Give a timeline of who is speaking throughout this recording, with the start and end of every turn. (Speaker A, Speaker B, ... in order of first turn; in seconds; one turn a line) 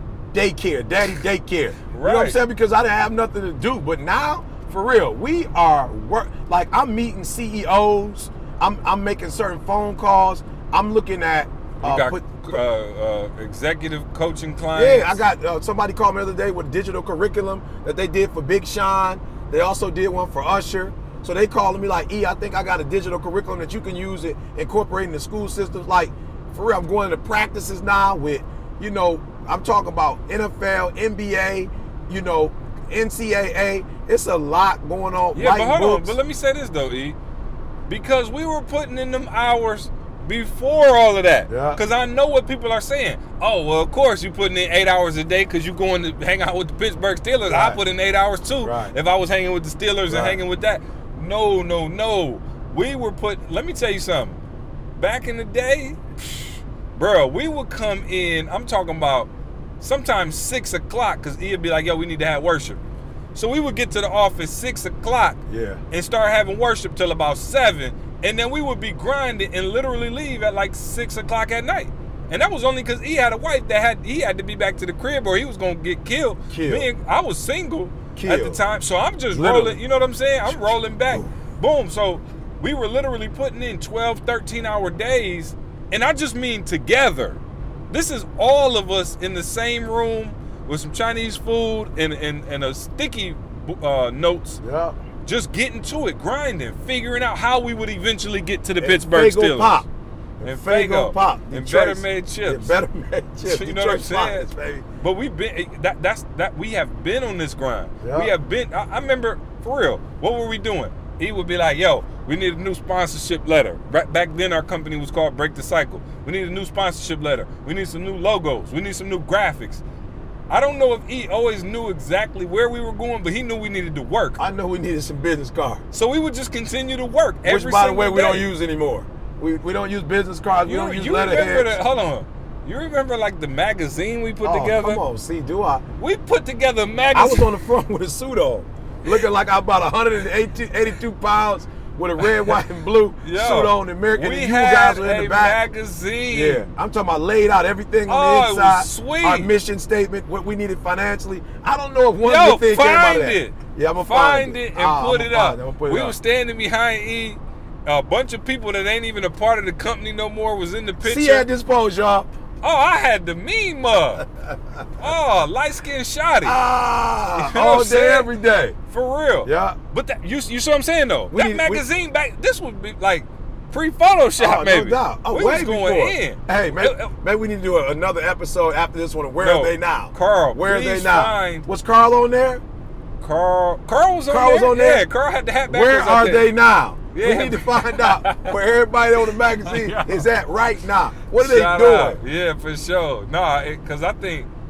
Speaker A: 0.3-12.6
Speaker B: 1.9-2.4
Speaker B: 11.8-15.2
Speaker A: 14.7-36.2
Speaker B: 35.3-37.2
Speaker B: 37.9-54.4
Speaker A: 41.5-41.8
Speaker A: 47.5-47.8
Speaker A: 48.6-49.0
Speaker A: 50.1-50.4
Speaker B: 55.0-59.3
Speaker B: 59.8-62.8
Speaker B: 63.4-94.6
Speaker A: 65.5-65.8
Speaker A: 76.5-76.9
Speaker A: 78.2-78.6
Speaker A: 79.3-79.8
Speaker A: 80.5-81.3
Speaker A: 94.6-95.0
Speaker B: 95.2-99.8
Speaker A: 98.8-99.9
Speaker A: 100.4-104.9
Speaker B: 100.4-102.8
Speaker B: 103.5-104.5
Speaker B: 105.0-119.8
Speaker A: 108.0-108.3
Speaker B: 120.5-124.4
Speaker A: 124.4-125.8
Speaker B: 125.9-128.5
Speaker A: 127.5-131.8
Speaker B: 130.6-135.0
Speaker A: 134.4-135.8
Speaker B: 136.0-137.6
Speaker A: 137.1-145.6
Speaker B: 142.2-142.6
Speaker B: 143.2-146.7
Speaker A: 146.3-156.2
Speaker B: 148.1-149.5
Speaker B: 152.2-161.5
Speaker A: 161.0-162.3
Speaker B: 162.6-164.3
Speaker B: 165.0-166.6
Speaker A: 166.4-168.8
Speaker B: 167.3-168.3
Speaker B: 168.9-177.1
Speaker A: 169.4-169.8
Speaker A: 171.3-171.8
Speaker A: 174.4-182.6
Speaker B: 179.4-181.7
Speaker B: 183.2-186.5
Speaker A: 184.3-185.1
Speaker A: 185.7-192.2
Speaker B: 187.1-188.6
Speaker B: 189.3-190.3
Speaker B: 191.3-194.5